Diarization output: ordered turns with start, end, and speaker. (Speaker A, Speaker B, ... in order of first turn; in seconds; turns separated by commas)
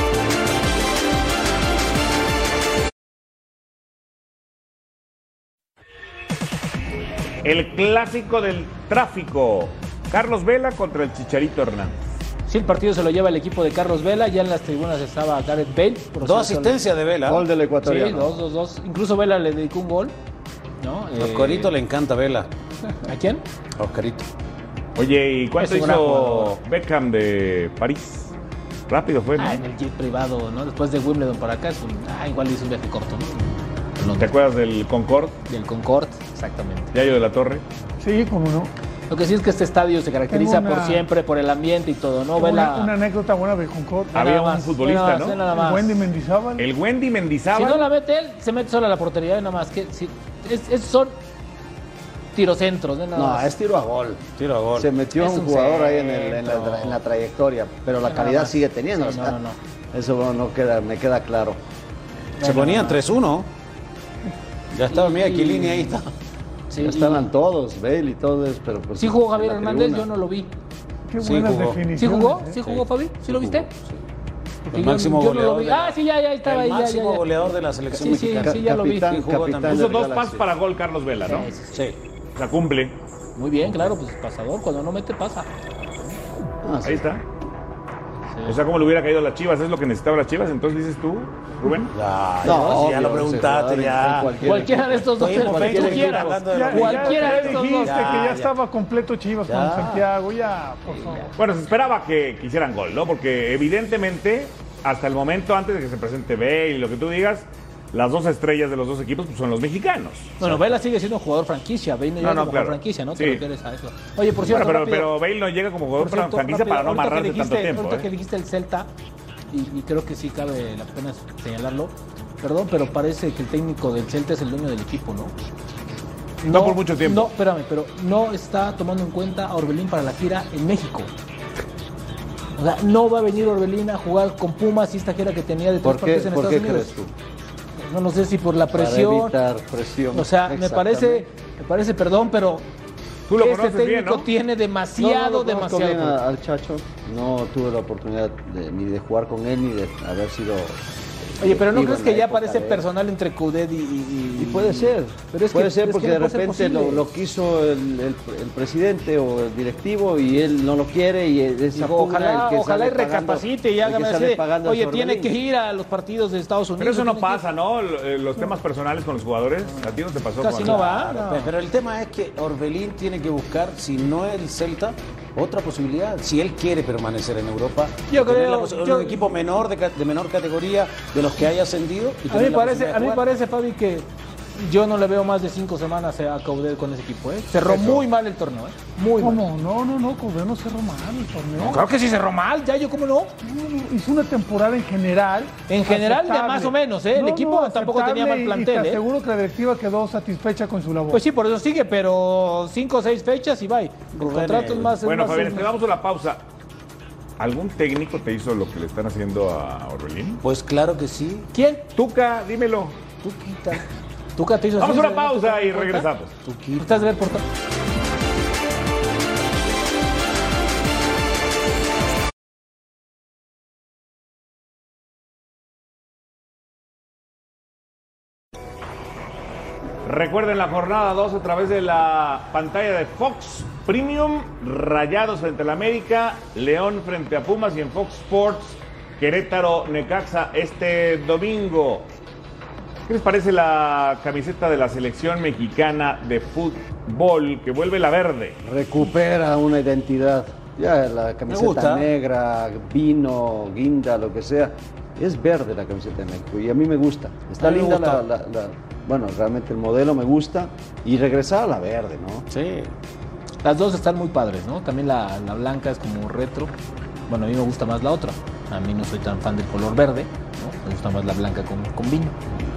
Speaker A: 7.4-12.2, Speaker B: 12.5-16.8, Speaker C: 16.2-17.4, Speaker D: 17.2-18.4, Speaker B: 17.8-20.1, Speaker B: 20.8-21.7, Speaker C: 21.2-22.5, Speaker B: 23.1-23.4, Speaker C: 23.8-24.3, Speaker A: 25.0-28.4, Speaker B: 25.6-26.6, Speaker A: 28.9-29.6, Speaker B: 29.4-34.3, Speaker A: 34.2-35.4, Speaker B: 35.5-36.9, Speaker A: 36.9-37.6, Speaker E: 38.0-38.7, Speaker B: 39.1-43.0, Speaker E: 40.3-41.1, Speaker E: 42.4-44.2, Speaker B: 44.1-46.0, Speaker A: 44.1-45.4, Speaker E: 45.5-46.7, Speaker A: 46.6-47.9, Speaker B: 47.5-51.2, Speaker B: 52.3-53.5, Speaker D: 53.1-59.4, Speaker C: 54.4-54.9, Speaker B: 55.2-57.0, Speaker B: 58.1-59.6, Speaker D: 59.9-61.6, Speaker B: 62.4-63.0, Speaker C: 62.4-63.5, Speaker C: 64.7-66.1, Speaker B: 64.9-66.0, Speaker B: 66.7-67.3, Speaker D: 66.8-70.1, Speaker B: 69.0-70.5, Speaker E: 71.1-72.6, Speaker C: 71.2-71.8, Speaker B: 72.0-73.7, Speaker C: 72.6-74.0, Speaker B: 74.7-79.1, Speaker C: 74.7-79.9, Speaker D: 77.9-80.5, Speaker A: 79.7-81.5, Speaker B: 81.2-81.8, Speaker C: 81.7-82.0, Speaker A: 82.4-83.0, Speaker B: 83.4-85.5, Speaker D: 86.6-87.1, Speaker A: 86.8-87.2, Speaker A: 88.5-91.9, Speaker C: 91.9-98.5, Speaker D: 92.4-96.4, Speaker B: 94.4-98.2, Speaker E: 96.5-101.3, Speaker C: 99.5-100.0, Speaker A: 101.4-110.4, Speaker B: 110.4-115.2, Speaker A: 112.2-113.4, Speaker A: 114.4-118.1, Speaker B: 116.0-118.9, Speaker B: 119.5-125.3, Speaker B: 126.4-131.1, Speaker A: 126.5-127.3, Speaker B: 132.6-136.9, Speaker D: 135.8-137.1, Speaker B: 137.8-139.4, Speaker D: 138.7-141.3, Speaker B: 140.1-142.7, Speaker A: 143.3-144.3, Speaker B: 143.4-146.2, Speaker D: 145.0-152.9, Speaker B: 151.4-157.1, Speaker D: 154.4-165.3, Speaker B: 161.7-167.4, Speaker A: 166.8-170.9, Speaker B: 170.4-171.5, Speaker C: 170.6-183.2, Speaker B: 178.1-179.3, Speaker B: 182.2-189.4, Speaker A: 187.6-188.1, Speaker E: 189.2-191.9, Speaker B: 191.6-193.3, Speaker E: 193.4-201.2, Speaker B: 195.7-199.0, Speaker B: 201.1-205.7, Speaker C: 204.2-205.0, Speaker A: 205.0-206.4, Speaker A: 207.4-210.4, Speaker C: 210.4-211.5, Speaker B: 211.5-211.9, Speaker A: 211.9-213.0, Speaker B: 213.2-213.8, Speaker B: 214.4-216.1, Speaker A: 214.8-216.3, Speaker C: 216.4-217.2, Speaker B: 216.8-217.4, Speaker A: 230.0-242.1, Speaker A: 243.1-248.6, Speaker D: 248.6-262.5, Speaker C: 251.5-252.1, Speaker B: 257.6-258.2, Speaker C: 262.5-262.9, Speaker B: 263.6-266.7, Speaker B: 267.3-272.4